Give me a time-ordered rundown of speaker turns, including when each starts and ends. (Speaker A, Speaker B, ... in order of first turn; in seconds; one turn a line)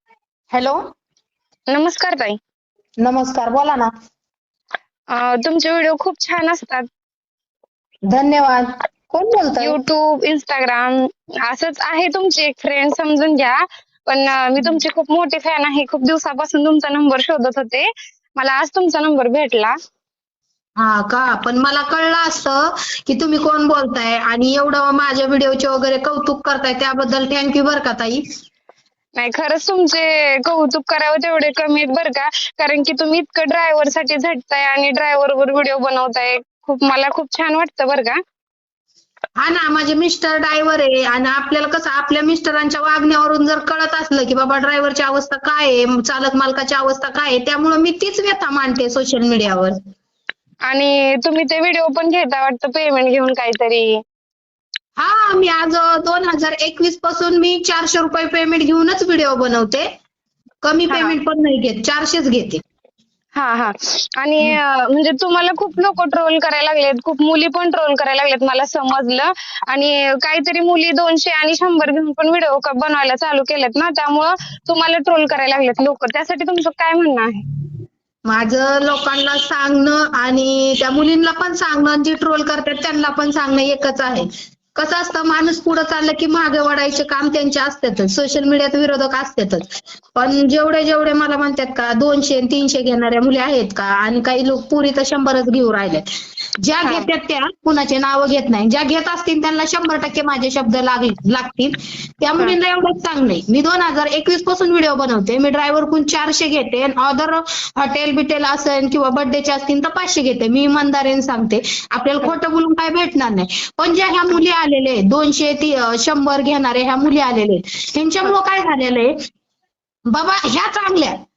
Speaker A: 0.5-0.8
Speaker B: 1.7-2.4
Speaker A: 3.0-3.9
Speaker B: 5.1-6.9
Speaker A: 8.1-9.8
Speaker B: 9.6-17.9
Speaker B: 18.4-19.7
Speaker A: 20.8-28.2
Speaker B: 29.2-38.2
Speaker A: 39.4-49.8
Speaker B: 50.7-53.9
Speaker A: 55.0-59.9
Speaker A: 60.6-62.6
Speaker B: 60.9-61.2
Speaker B: 63.4-77.5
Speaker A: 78.3-96.0
Speaker A: 96.6-119.1
Speaker A: 120.1-121.1